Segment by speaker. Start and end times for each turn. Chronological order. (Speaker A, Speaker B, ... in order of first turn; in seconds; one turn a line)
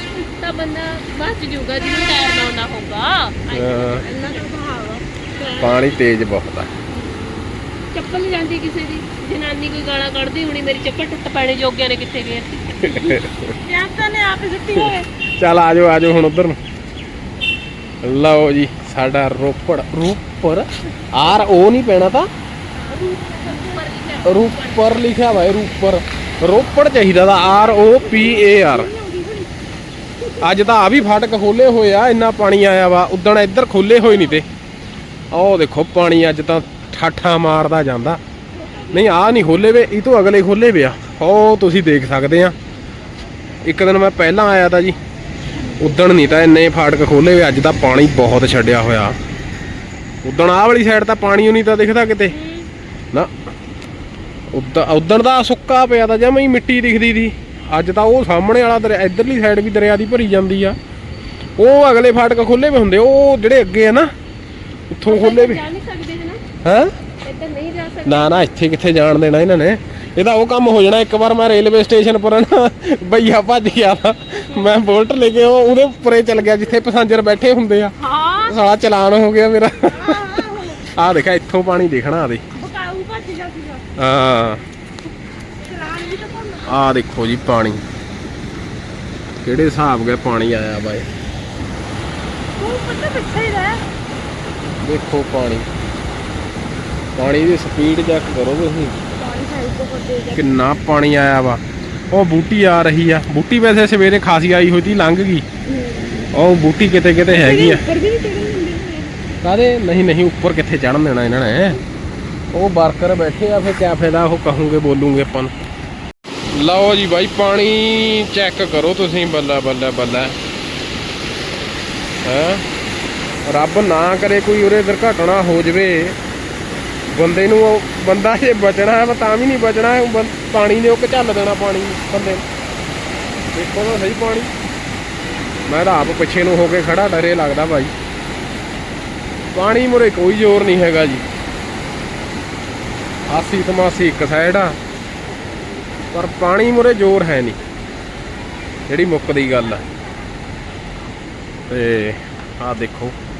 Speaker A: 0.4-4.5
Speaker B: 3.5-4.0
Speaker C: 4.0-5.0
Speaker A: 5.3-5.9
Speaker B: 5.6-6.7
Speaker A: 6.9-13.2
Speaker B: 12.8-13.5
Speaker C: 13.6-15.1
Speaker B: 14.8-16.6
Speaker B: 18.0-22.3
Speaker A: 22.7-24.9
Speaker C: 22.9-23.8
Speaker B: 24.2-28.9
Speaker C: 27.6-29.6
Speaker C: 30.2-30.6
Speaker B: 30.4-34.5
Speaker B: 35.3-38.2
Speaker C: 38.5-39.2
Speaker B: 38.9-42.5
Speaker B: 43.6-45.0
Speaker C: 45.6-46.2
Speaker B: 45.8-49.1
Speaker B: 50.2-52.4
Speaker C: 52.3-52.7
Speaker B: 54.5-60.8
Speaker B: 61.6-64.1
Speaker B: 64.9-65.6
Speaker A: 65.0-66.4
Speaker B: 66.6-66.9
Speaker A: 67.2-68.5
Speaker B: 68.0-77.9
Speaker A: 78.0-78.6
Speaker B: 78.5-80.2
Speaker C: 79.8-80.9
Speaker B: 80.9-82.4
Speaker C: 82.5-83.8
Speaker B: 84.0-84.6
Speaker A: 85.6-86.8
Speaker C: 85.6-86.8
Speaker B: 86.7-87.8
Speaker B: 89.4-91.1
Speaker C: 92.6-93.8
Speaker B: 94.8-95.7
Speaker B: 97.2-99.0
Speaker C: 99.1-100.4
Speaker B: 100.3-105.4
Speaker C: 105.7-106.3
Speaker B: 106.3-107.8
Speaker C: 107.3-109.2
Speaker B: 109.4-111.8
Speaker B: 112.5-115.5
Speaker B: 116.5-120.4
Speaker B: 122.2-122.6
Speaker B: 123.4-126.2
Speaker B: 127.1-132.4
Speaker B: 133.5-134.5
Speaker B: 135.7-137.9
Speaker B: 139.5-141.2
Speaker B: 143.3-144.8
Speaker B: 146.1-147.6
Speaker B: 148.9-149.8
Speaker C: 149.7-150.0
Speaker B: 151.7-153.1